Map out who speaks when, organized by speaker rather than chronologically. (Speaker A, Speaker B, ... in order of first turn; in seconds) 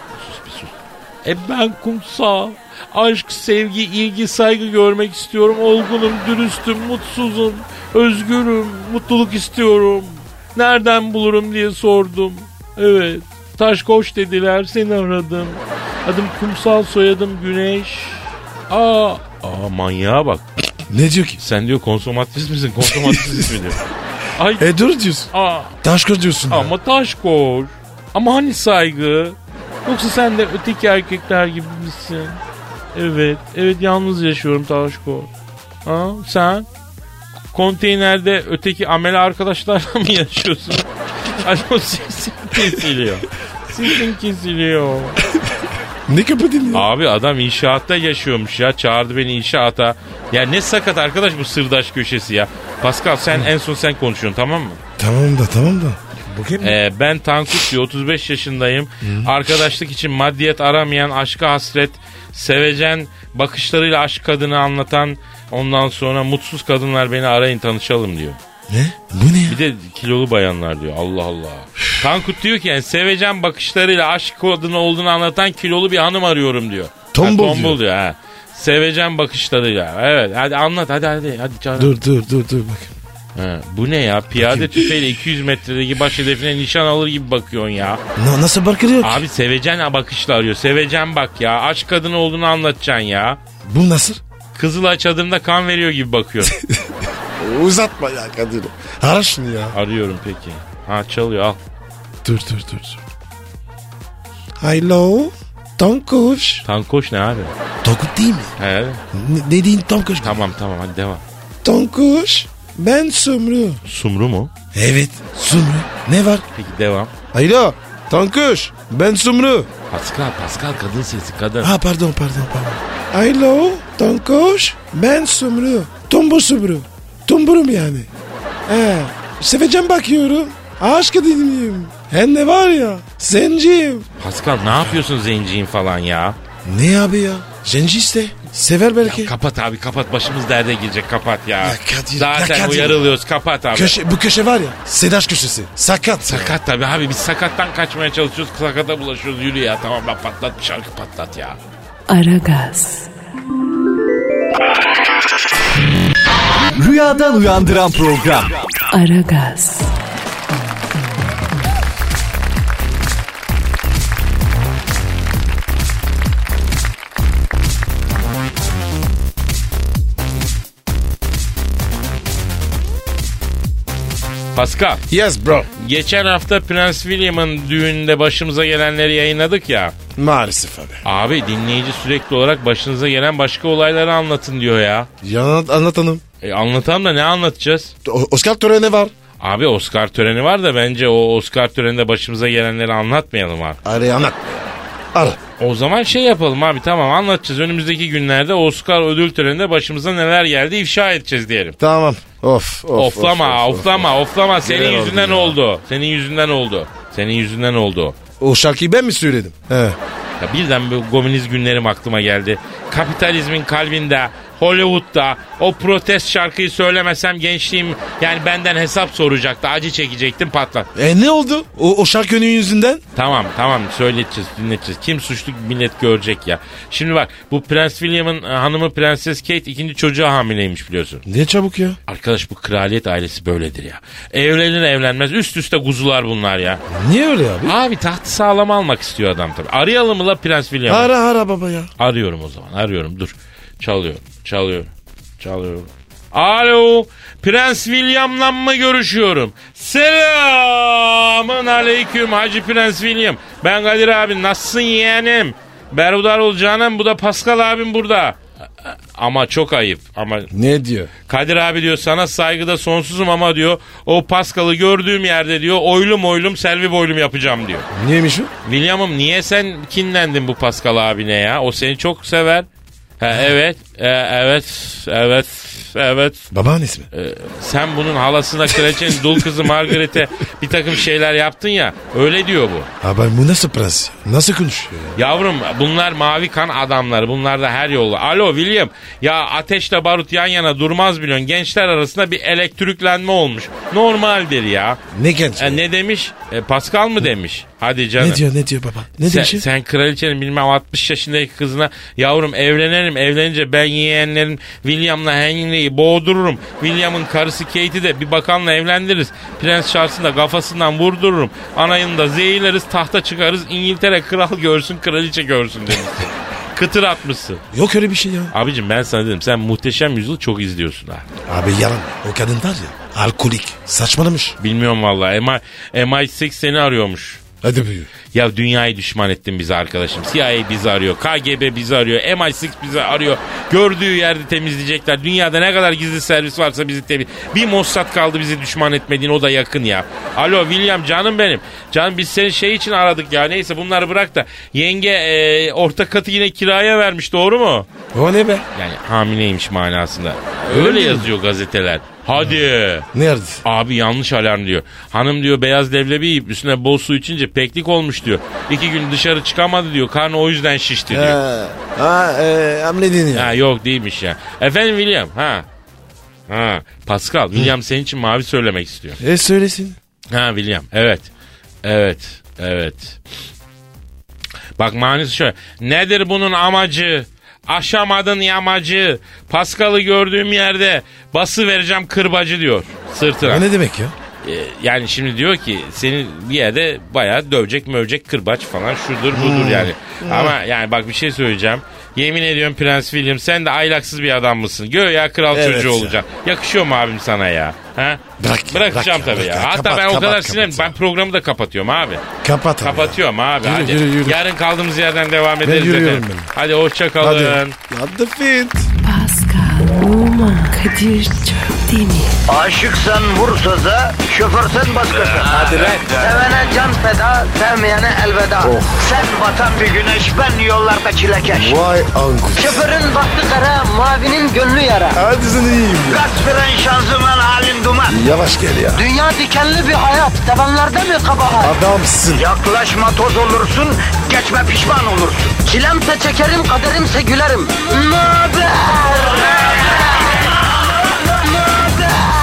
Speaker A: 0.2-20.4, 21.4-23.8, 24.3-24.7, 25.3-25.8, 26.5-32.4, 32.9-35.3, 35.8-36.7, 37.5-45.2, 46.7-54.8, 56.6-68.4, 69.5-81.9, 83.3-88.0, 89.0-93.4, 94.5-96.5, 99.7-101.6, 106.6-107.5, 108.6-109.0, 110.2-111.2, 113.8-114.5, 116.5-117.1, 119.9-121.7, 134.2-136.4, 139.0-144.0, 146.3-151.6, 174.5-175.0, 175.8-179.9, 181.0-185.1, 186.4-187.9, 189.4-193.8, 195.6-201.8, 202.9-208.2, 210.4-220.9, 223.1-231.2, 232.1-236.8, 237.6-241.1, 242.0-260.5, 261.3-267.9, 268.6-272.7, 273.2-276.5, 277.1-282.9, 285.1-295.0, 295.6-298.4, 299.2-317.6, 318.5-321.3, 324.6-327.4, 328.3-347.9, 348.7-353.1, 353.6-361.4, 363.3-365.6, 366.5-369.2, 370.3-371.3, 371.8-373.2, 374.8-383.6, 384.4-402.2, 402.8-407.8
Speaker B: 20.9-21.4, 22.8-23.4, 24.6-25.3, 25.8-26.7, 46.1-46.9, 55.0-56.8, 59.0-59.3, 68.7-69.6, 77.1-77.8, 81.8-82.9, 84.3-84.9, 88.2-89.2, 93.6-94.2, 96.5-99.8, 102.2-103.0, 104.6-106.6, 107.8-108.5, 109.1-110.4, 111.6-113.8, 114.7-116.4, 117.3-119.7, 121.6-128.1, 128.7-134.1, 136.6-139.3, 141.6-143.2, 143.7-146.6, 175.1-175.7, 180.2-181.0, 185.2-186.2, 188.0-189.1, 193.8-195.4, 201.8-204.1, 204.6-205.6, 208.4-210.0, 220.9-223.0, 231.2-232.0, 236.9-237.7, 240.9-241.9, 260.5-261.1, 267.9-268.5, 276.5-277.1, 278.9-279.4, 283.0-285.2, 295.1-295.8, 298.2-299.6, 317.7-318.5, 321.4-324.6, 327.6-328.1, 348.1-348.6, 350.7-351.3, 353.1-353.6, 361.1-363.5, 369.2-370.0, 383.4-384.1, 389.3-390.6, 395.5-396.2, 398.4-401.0, 402.4-404.4, 405.6-406.5, 407.2-408.9, 418.6-419.1, 421.5-422.8, 425.1-426.2, 428.1-429.1, 431.6-432.5
Speaker C: 152.1-153.1, 158.9-159.9, 409.0-412.4
Speaker D: 156.8-158.6, 415.6-416.2
Speaker E: 412.5-421.8, 422.6-425.2, 426.1-428.2, 428.9-431.7, 432.3-439.9, 441.5-442.3